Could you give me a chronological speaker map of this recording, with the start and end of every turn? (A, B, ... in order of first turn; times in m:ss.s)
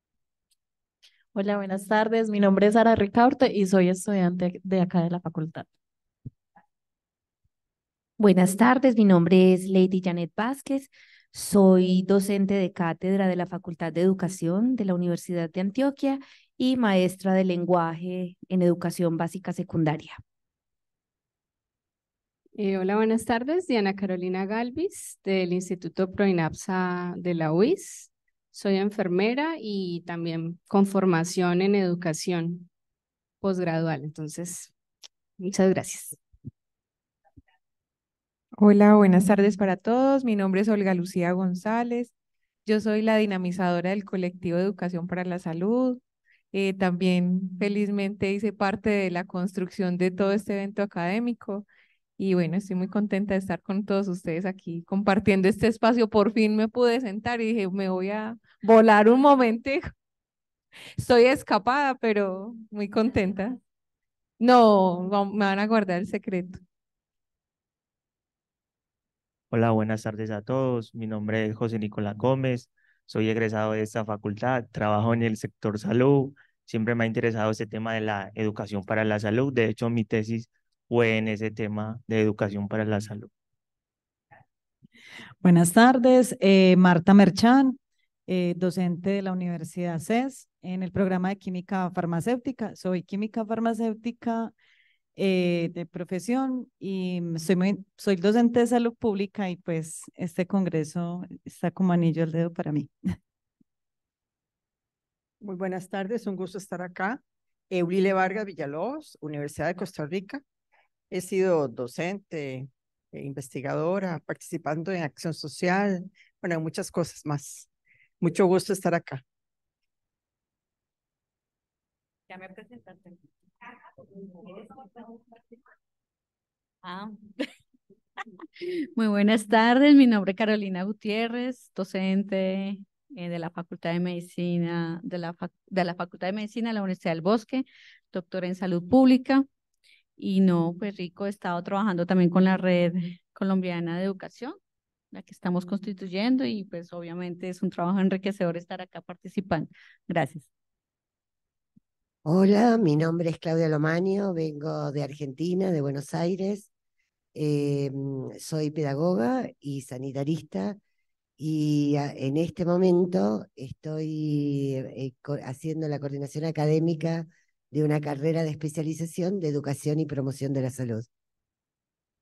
0:01.4-0:03.0 A
0:03.7-0:04.6 A
0:08.2-0:20.2 B
0:22.6-0:32.7 C
0:33.4-0:34.7 C
0:35.4-0:36.1 C
0:38.6-0:39.0 A
0:39.0-0:42.1 D
0:42.6-0:46.0 D
0:46.5-0:51.7 D
0:52.2-0:59.9 D
1:01.0-1:03.6 D
1:04.4-1:06.6 D
1:09.5-1:23.3 E
1:25.4-1:34.5 F
1:35.2-1:42.9 F
1:45.4-1:50.4 G
1:51.1-1:57.7 G
1:58.2-1:59.2 G
2:06.8-2:07.1 H
2:08.9-2:19.4 H
2:20.2-2:24.6 H
2:25.1-2:30.5 H
2:32.2-2:36.7 I
2:37.3-2:40.8 I
2:41.4-2:51.1 I